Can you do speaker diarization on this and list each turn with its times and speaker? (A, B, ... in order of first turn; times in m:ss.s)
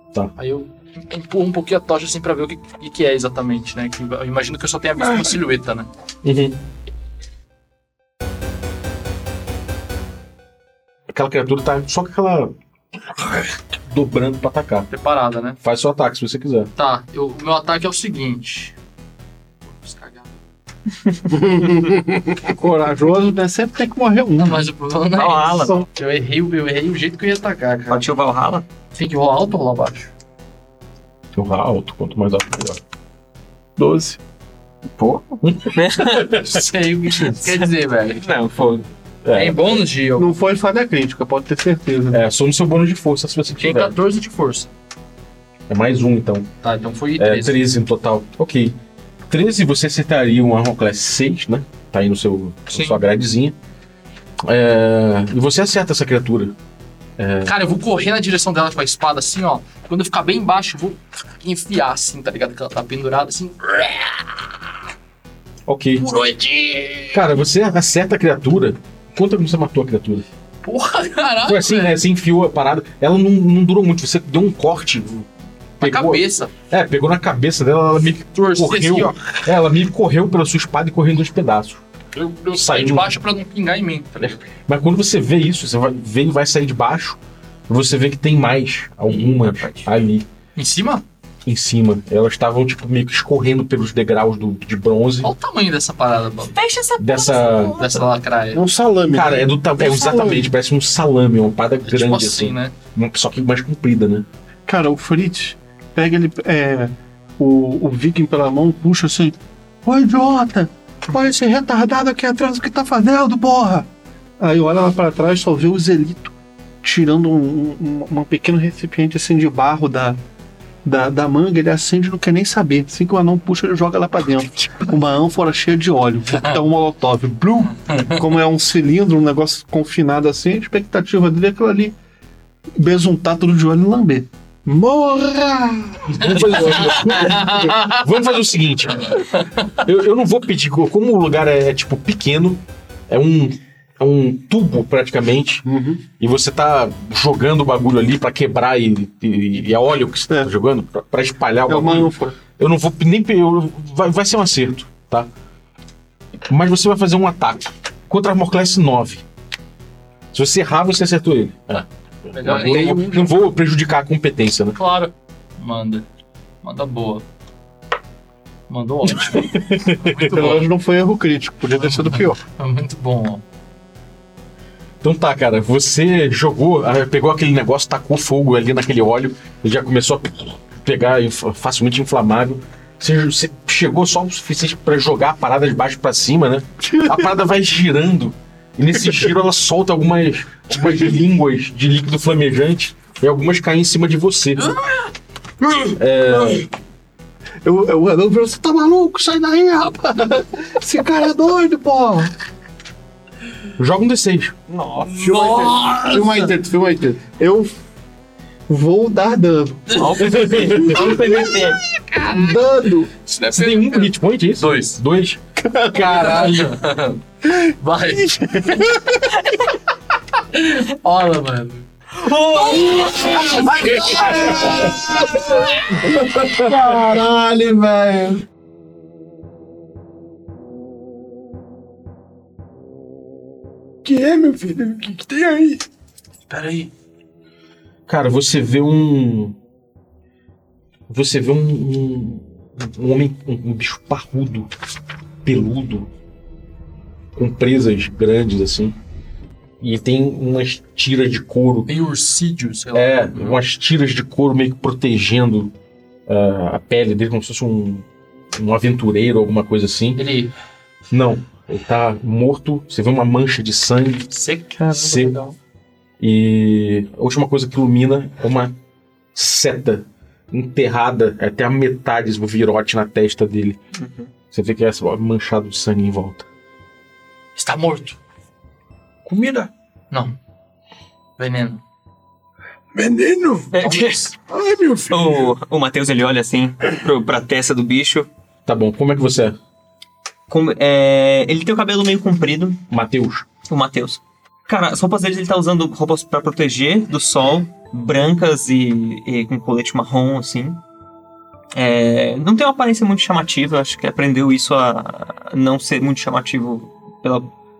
0:00.4-0:05.9 A
0:06.2-0:06.6 B
0:11.1-0:12.5 B
0:13.2-0:14.9 B
0:14.9-0:15.6 A
0:15.6-0:16.7 B
0:16.8-0:18.8 A
0:19.6-0:20.4 A
0:22.5-0:24.7 C
0:24.4-0:28.0 A
0:25.2-0:25.8 D
0:27.9-0:28.6 D
0:28.9-0:30.1 A
0:31.3-0:32.8 B
0:33.8-0:34.2 C
0:35.0-0:36.4 D
0:35.4-0:36.6 B
0:36.4-0:38.3 A
0:38.2-0:38.8 D
0:39.2-0:39.8 B
0:39.3-0:40.4 A
0:40.2-0:42.2 C
0:42.1-0:44.0 B
0:43.6-0:44.7 A
0:45.7-0:46.5 B
0:46.6-0:47.6 A
0:47.2-0:48.8 B
0:49.3-0:53.6 B
0:52.7-0:53.0 A
0:54.4-0:56.6 B
0:57.2-0:57.5 B
0:57.4-1:04.3 A
1:05.6-1:06.1 B
1:06.0-1:07.2 A
1:07.1-1:10.2 B
1:10.6-1:12.0 A
1:11.4-1:15.3 B
1:15.8-1:16.5 A
1:15.8-1:21.8 B
1:18.3-1:19.2 A
1:22.2-1:24.4 A
1:22.5-1:23.2 B
1:24.2-1:30.3 B
1:29.1-1:29.9 D
1:30.6-1:31.0 A
1:31.4-1:35.3 B
1:35.2-1:36.6 A
1:36.5-1:38.1 D
1:37.0-1:37.8 B
1:37.8-1:38.6 A
1:38.5-1:40.4 E
1:39.1-1:44.3 B
1:41.8-1:42.7 A
1:44.7-1:53.9 C
1:54.4-2:00.2 C
2:00.8-2:11.9 C
2:07.9-2:08.2 A
2:12.8-2:16.1 C
2:16.1-2:25.6 B
2:16.2-2:18.0 A
2:19.3-2:19.7 A
2:25.6-2:26.0 E
2:26.2-2:35.3 B
2:31.7-2:32.4 C
2:36.5-2:39.2 B
2:40.3-2:44.8 B
2:42.3-2:43.2 A
2:42.8-2:43.0 C
2:44.8-2:46.1 A
2:46.6-2:47.2 A
2:48.7-2:50.7 A
2:49.7-2:50.4 B
2:50.1-2:52.4 C
2:51.7-2:53.4 A
2:55.0-3:14.8 B
3:15.9-3:16.7 B
3:17.6-3:22.3 C
3:23.8-3:24.6 B
3:24.7-3:25.5 D
3:25.0-3:26.5 A
3:25.2-3:27.4 E
3:27.3-3:27.7 C
3:28.7-3:30.0 C
3:29.9-3:31.1 A
3:29.9-3:31.8 D
3:30.6-3:31.0 C
3:32.1-3:33.1 C
3:32.1-3:32.4 A
3:33.2-3:35.0 A
3:33.5-3:36.7 B
3:35.6-3:36.2 C
3:36.0-3:38.9 A
3:38.4-3:39.0 C
3:40.5-3:41.9 A
3:42.2-3:43.6 D
3:42.5-3:46.2 A
3:43.5-3:45.0 E
3:46.5-3:48.4 E
3:54.0-3:55.8 E
3:56.5-3:56.9 A
3:58.1-3:59.6 B
4:01.1-4:04.7 B
4:05.4-4:06.1 B
4:07.4-4:09.0 B
4:09.8-4:11.9 B
4:11.9-4:13.6 A
4:12.9-4:15.7 B
4:16.3-4:20.2 B
4:20.2-4:20.5 A
4:21.1-4:24.3 B
4:24.3-4:24.8 A
4:24.8-4:25.5 C
4:24.9-4:25.4 B
4:26.2-4:28.8 B
4:29.3-4:33.8 B
4:33.9-4:34.3 D
4:34.5-4:36.5 B
4:37.6-4:38.2 A
4:39.2-4:39.7 E
4:40.1-4:40.4 A
4:41.4-4:41.8 A
4:42.9-4:43.7 E
4:43.7-4:44.3 D
4:43.8-4:44.3 A
4:44.5-4:45.5 E
4:45.1-4:48.3 D
4:48.6-4:49.6 B
4:50.5-4:52.8 D
4:52.9-4:53.5 B
4:53.7-5:00.8 D
5:01.7-5:07.5 D